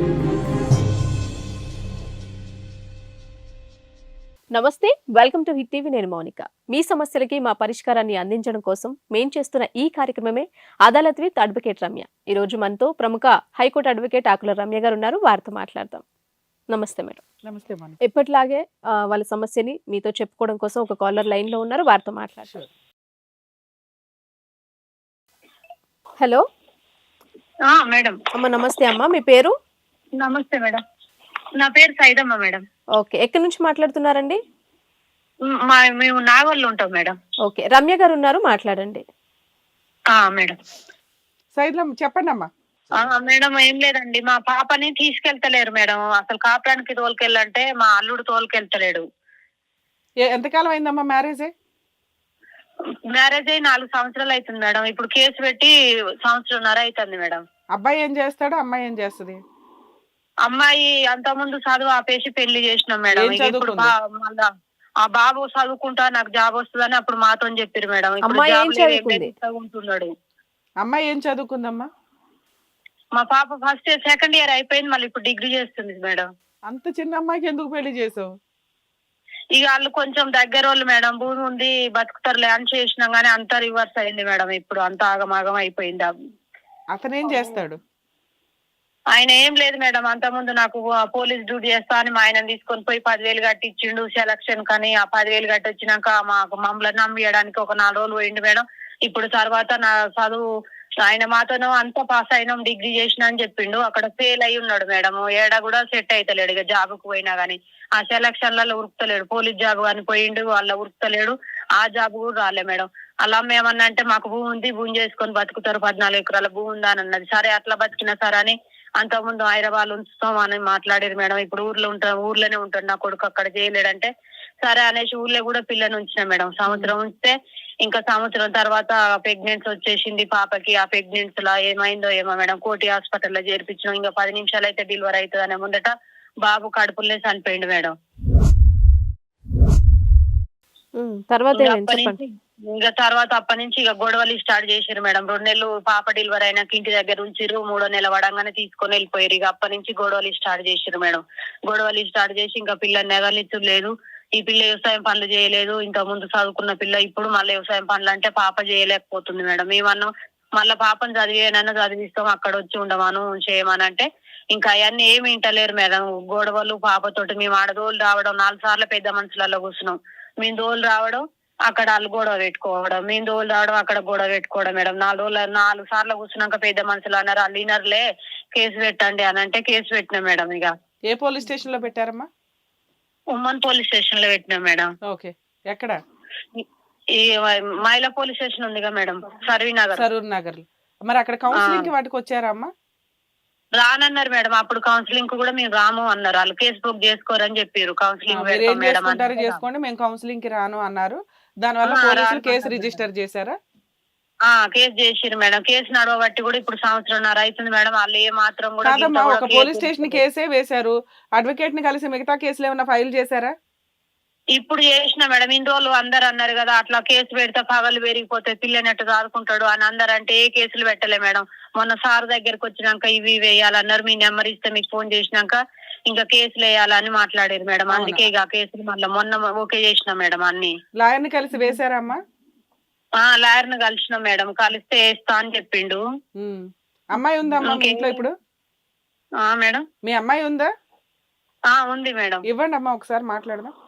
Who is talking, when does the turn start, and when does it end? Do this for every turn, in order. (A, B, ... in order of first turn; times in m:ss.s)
0:04.5-0:16.0 A
0:16.7-0:17.2 A
0:17.5-0:18.0 B
0:18.1-0:22.5 A
0:27.7-0:28.2 C
0:28.3-0:29.5 A
0:30.2-0:30.8 C
0:31.6-0:32.6 C
0:33.0-0:34.4 A
0:35.7-0:37.2 C
0:37.4-0:39.0 A
0:40.1-0:40.6 C
0:41.6-0:43.1 B
0:43.0-0:49.0 C
0:50.3-0:51.5 B
0:53.1-0:55.7 C
0:56.2-0:57.4 C
0:57.7-0:59.4 B
1:00.5-1:04.5 C
1:03.1-1:03.9 B
1:05.0-1:10.1 C
1:08.2-1:09.3 A
1:10.8-1:11.9 B
1:13.2-1:16.3 C
1:16.7-1:18.3 B
1:19.6-1:26.1 C
1:26.9-1:27.8 B
1:29.1-1:40.4 C
1:41.0-2:04.1 C
2:04.6-2:07.3 C
2:07.8-2:15.9 C
2:16.4-2:17.9 C
2:21.0-2:22.2 A
2:21.5-3:00.7 C
3:01.1-3:02.3 B
3:03.4-3:04.9 C
3:05.0-3:06.0 B
3:07.2-3:10.0 C
3:10.0-3:12.7 B
3:11.6-3:11.9 C
3:13.8-3:19.6 C
3:18.3-3:23.6 B
3:21.9-3:23.0 C
3:24.5-3:30.2 C
3:28.8-3:33.5 B
3:34.6-3:50.8 C
3:47.9-3:48.3 B
3:51.0-3:52.2 B
3:53.2-3:56.0 C
3:56.4-3:58.3 B
3:57.6-3:58.2 C
3:59.4-3:59.8 C
4:00.0-4:00.7 B
4:01.7-4:02.4 C
4:02.5-4:03.7 B